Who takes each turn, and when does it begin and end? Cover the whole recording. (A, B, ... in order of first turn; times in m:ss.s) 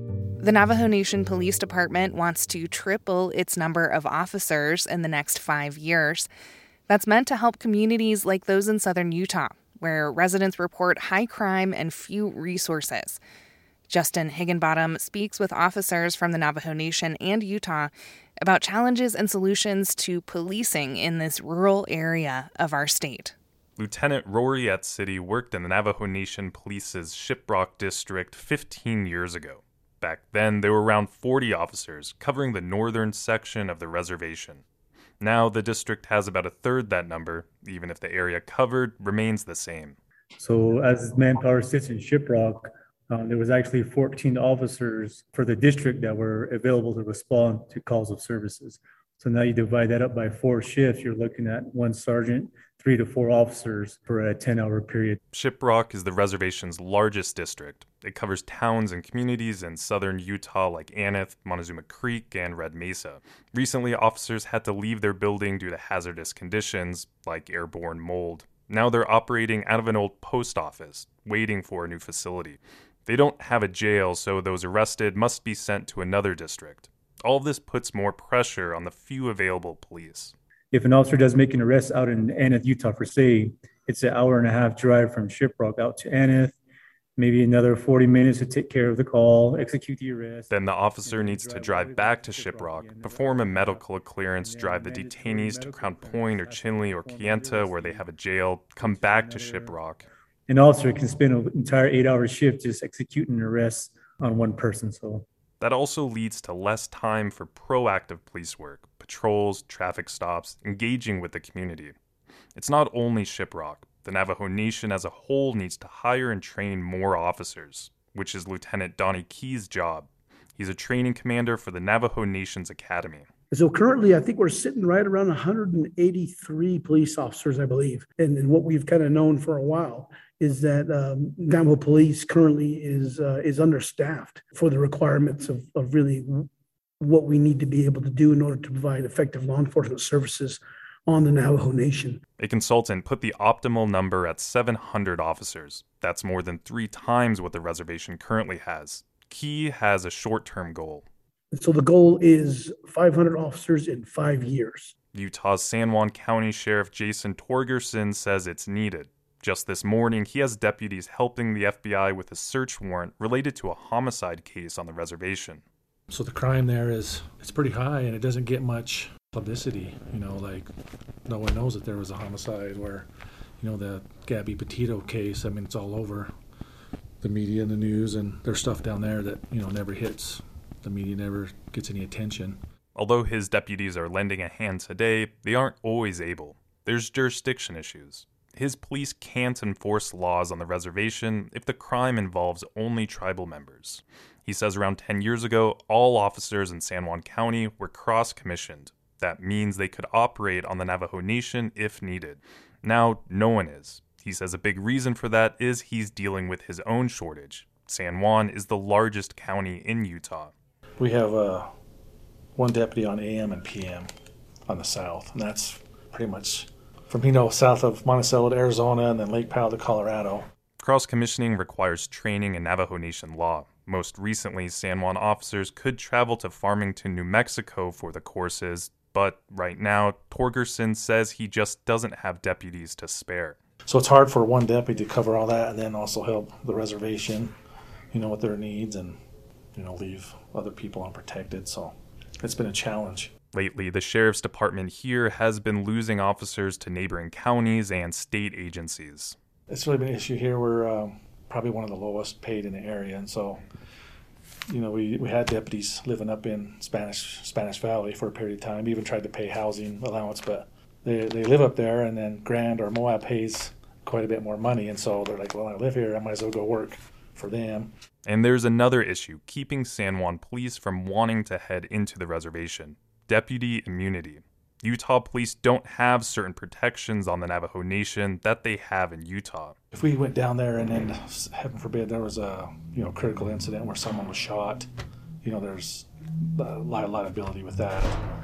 0:00.4-0:06.3 A
0:06.9-0:13.2 A
0:13.9-0:23.3 A
0:23.8-0:34.6 B
0:35.2-0:40.0 B
0:40.4-0:55.2 C
0:55.3-1:20.3 B
1:20.7-1:26.6 C
1:27.2-1:30.5 C
1:30.5-1:40.1 B
1:31.0-1:33.8 C
1:34.4-1:38.1 C
1:38.8-1:39.8 C
1:40.5-1:45.2 C
1:45.6-1:51.9 B
1:52.5-2:03.3 B
2:03.5-2:16.5 D
2:17.0-2:22.2 D
2:22.4-2:31.0 B
2:31.5-2:34.9 D
2:35.1-2:45.6 B
2:46.1-2:50.7 E
2:51.2-2:53.1 E
2:53.6-2:56.3 E
2:57.2-3:02.6 E
3:02.9-3:30.5 B
3:31.0-3:31.7 E
3:32.6-3:34.1 E
3:34.7-3:40.5 E
3:40.8-3:53.6 B
3:53.9-3:57.5 E
3:58.1-3:59.2 E
3:59.7-4:03.3 E
4:03.5-4:09.4 B
4:09.7-4:13.6 E
4:14.7-4:27.9 E
4:28.2-4:39.7 B
4:39.9-4:44.9 E
4:45.4-4:48.2 E